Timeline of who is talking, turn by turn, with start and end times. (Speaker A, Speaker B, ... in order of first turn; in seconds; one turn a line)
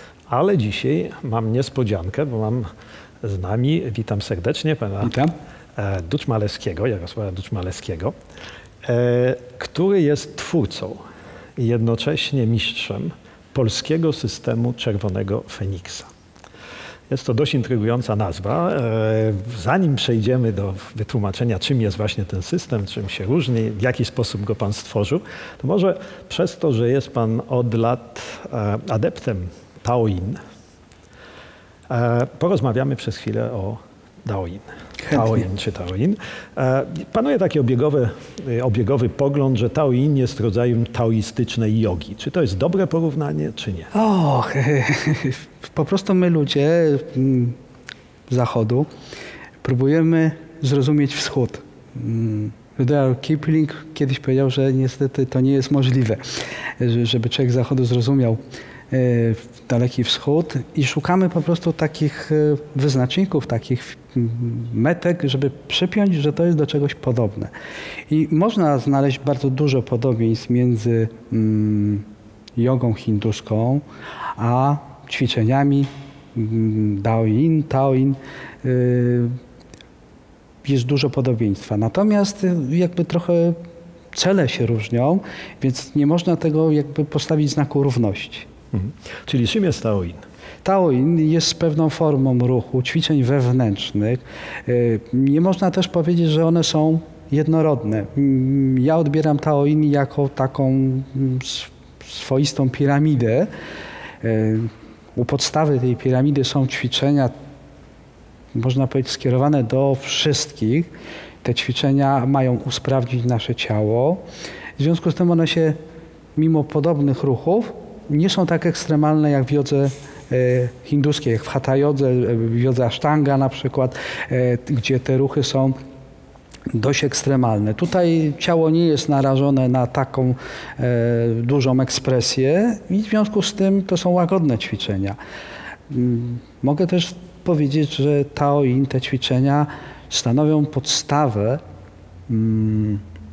Speaker A: 0.3-2.6
Speaker A: 3.2-5.1
Speaker B: 5.0-5.3
Speaker A: 5.8-8.1
Speaker A: 8.8-11.0
Speaker A: 11.6-16.1
Speaker A: 17.1-30.4
Speaker A: 31.9-43.9
Speaker B: 35.0-35.5
Speaker B: 43.9-47.6
Speaker B: 48.3-48.9
Speaker B: 49.6-56.2
Speaker B: 56.8-58.4
Speaker B: 58.9-67.5
Speaker B: 68.1-72.0
Speaker B: 72.6-73.8
Speaker B: 74.4-79.3
Speaker B: 80.6-83.6
Speaker B: 84.1-88.5
Speaker A: 88.7-90.2
Speaker B: 90.6-103.5
Speaker B: 104.2-107.3
Speaker B: 108.5-110.9
Speaker B: 111.4-114.2
Speaker B: 114.8-115.8
Speaker B: 116.3-125.8
Speaker B: 126.7-135.2
Speaker B: 135.9-141.6
Speaker B: 142.3-143.0